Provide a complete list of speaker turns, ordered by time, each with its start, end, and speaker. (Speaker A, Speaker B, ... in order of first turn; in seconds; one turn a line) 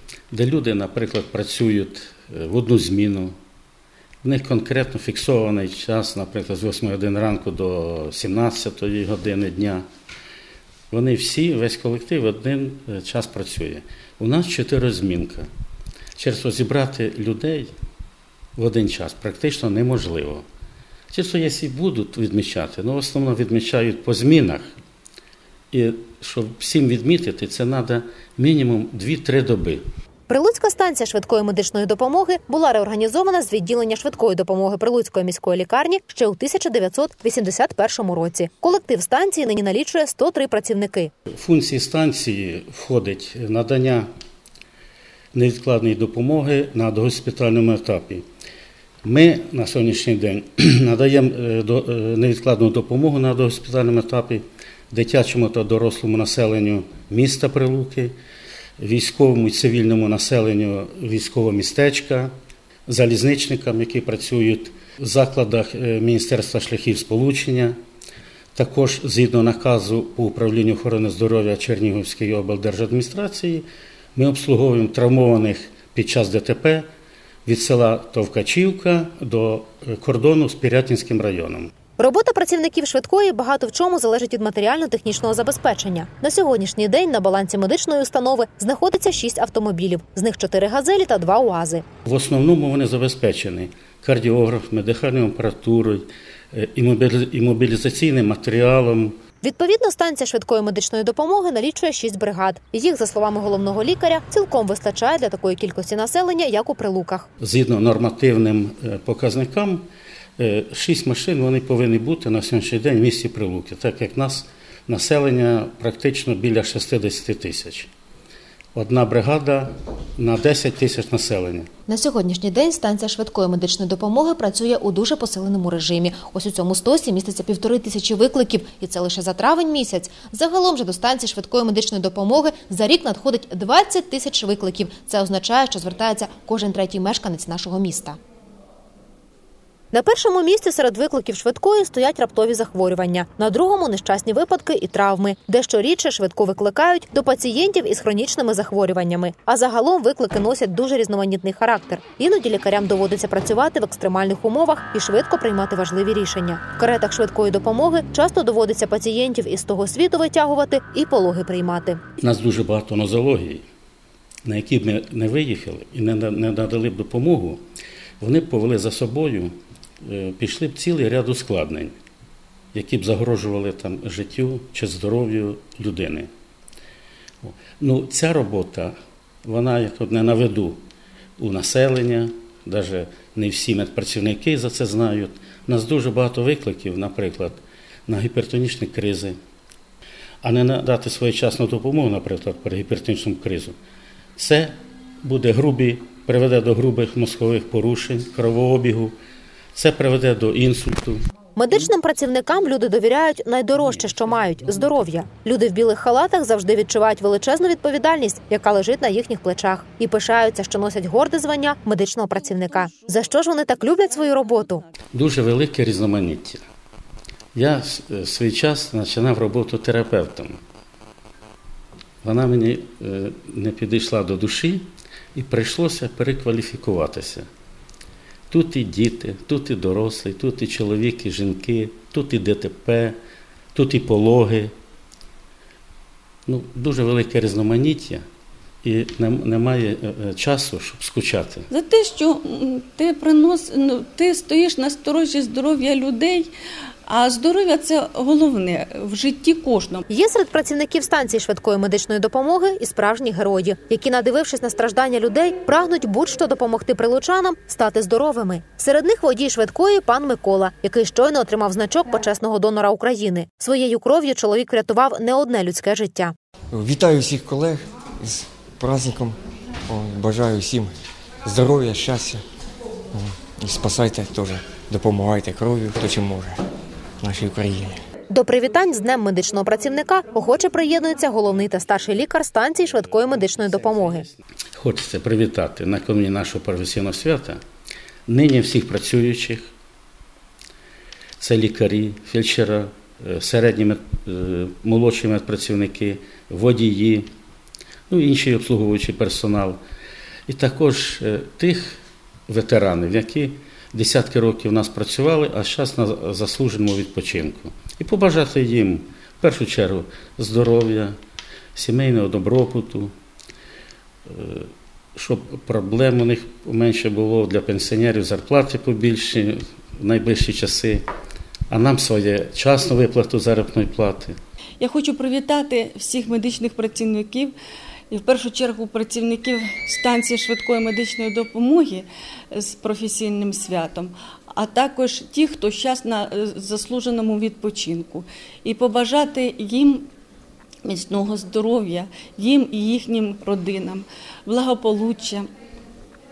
Speaker A: 0.3-3.3
Speaker A: 4.2-9.8
Speaker A: 10.9-15.5
Speaker A: 16.2-17.7
Speaker A: 18.6-20.4
Speaker A: 21.1-24.7
Speaker A: 25.7-29.8
Speaker B: 30.3-41.1
Speaker A: 41.4-44.0
Speaker A: 45.3-48.2
Speaker A: 49.0-58.1
Speaker A: 58.8-62.3
Speaker A: 62.9-67.7
Speaker A: 68.5-76.8
Speaker A: 77.5-81.7
Speaker B: 82.0-91.8
Speaker A: 92.0-99.2
Speaker B: 99.4-107.3
Speaker A: 107.4-109.9
Speaker A: 110.4-117.9
Speaker A: 118.7-121.7
Speaker B: 121.9-138.2
Speaker B: 139.9-162.0
Speaker A: 162.2-163.6
Speaker A: 164.4-167.6
Speaker A: 168.2-171.9
Speaker A: 172.7-176.3
Speaker A: 177.4-178.9
Speaker A: 179.4-180.8
Speaker A: 181.4-189.3
Speaker A: 190.4-193.8
Speaker A: 194.4-199.2
Speaker A: 199.7-201.2
Speaker B: 201.6-214.8
Speaker A: 215.1-216.6
Speaker A: 217.5-220.6
Speaker A: 222.2-227.5
Speaker A: 228.5-233.2
Speaker A: 233.7-234.7
Speaker A: 236.5-238.2
Speaker A: 238.8-241.7
Speaker C: 241.7-246.5
Speaker C: 247.1-250.0
Speaker B: 250.1-266.3
Speaker D: 266.7-269.4
Speaker D: 269.9-270.9
Speaker D: 271.4-272.4
Speaker D: 273.1-276.6
Speaker D: 277.2-278.0
Speaker B: 278.3-284.2
Speaker A: 283.2-284.2
Speaker A: 284.8-287.6
Speaker A: 288.3-289.7
Speaker A: 291.4-297.3
Speaker A: 298.1-299.8
Speaker A: 300.5-311.1
Speaker A: 311.7-313.1
Speaker A: 314.2-321.0
Speaker A: 321.7-324.4
Speaker C: 324.8-327.5
Speaker C: 328.1-340.1
Speaker C: 340.8-345.5